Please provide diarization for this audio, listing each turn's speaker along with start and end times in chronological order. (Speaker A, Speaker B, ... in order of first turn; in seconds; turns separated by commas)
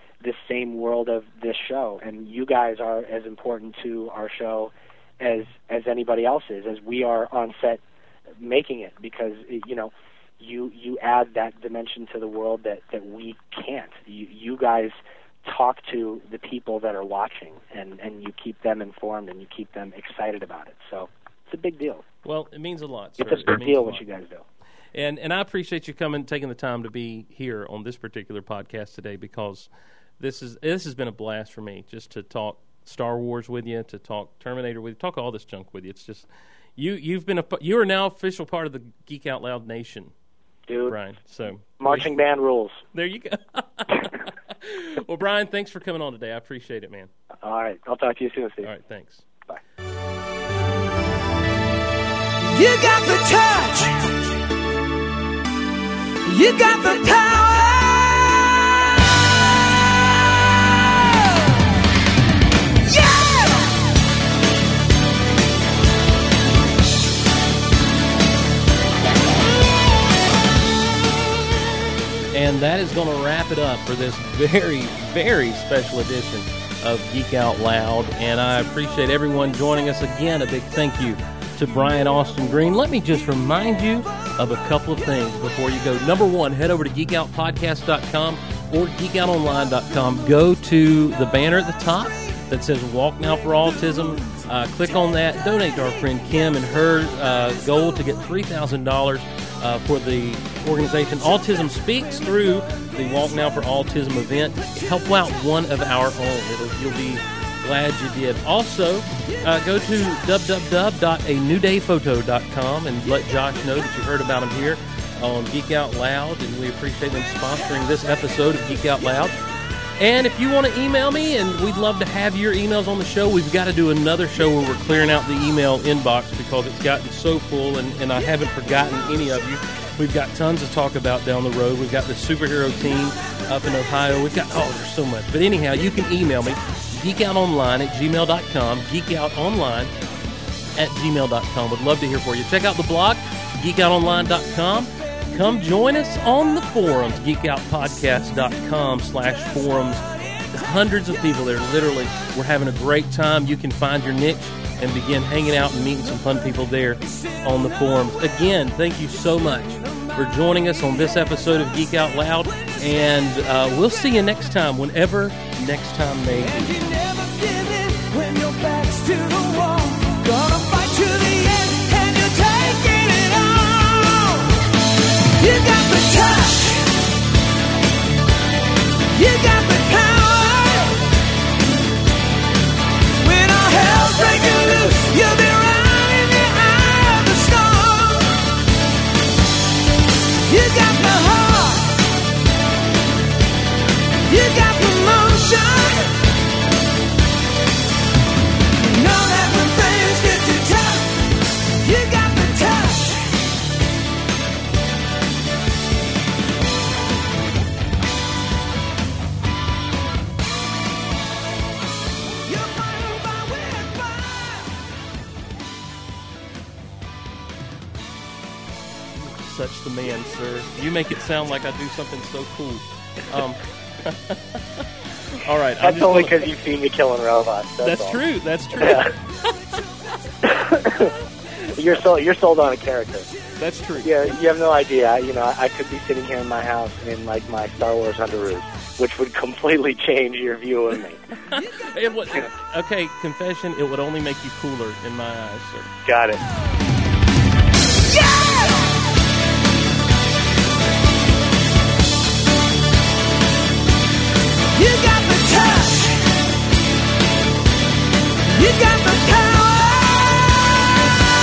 Speaker A: 0.2-7.8, Speaker A: 8.4-22.0, Speaker B: 22.2-24.0, Speaker A: 23.2-24.4, Speaker B: 24.9-40.1, Speaker A: 40.7-41.0, Speaker B: 40.9-42.1, Speaker A: 41.8-42.8, Speaker B: 42.9-47.1, Speaker A: 47.4-48.7, Speaker B: 48.6-49.3, Speaker C: 52.4-54.2, Speaker C: 56.2-58.5, Speaker C: 62.9-63.7, Speaker B: 72.3-119.4, Speaker B: 120.0-139.9, Speaker B: 140.8-166.8, Speaker C: 166.6-174.6, Speaker C: 175.4-176.9, Speaker C: 179.1-181.1, Speaker C: 183.2-188.5, Speaker C: 190.4-192.0, Speaker C: 194.2-196.2, Speaker C: 198.8-203.3, Speaker C: 212.5-214.7, Speaker B: 219.1-226.4, Speaker A: 225.8-228.2, Speaker B: 227.8-229.3, Speaker A: 228.8-229.1, Speaker A: 230.4-231.1, Speaker A: 231.7-233.3, Speaker B: 233.6-234.3, Speaker A: 234.0-241.2, Speaker B: 241.4-245.9, Speaker A: 246.0-246.4, Speaker C: 248.1-248.9, Speaker C: 254.7-256.2, Speaker C: 258.5-260.5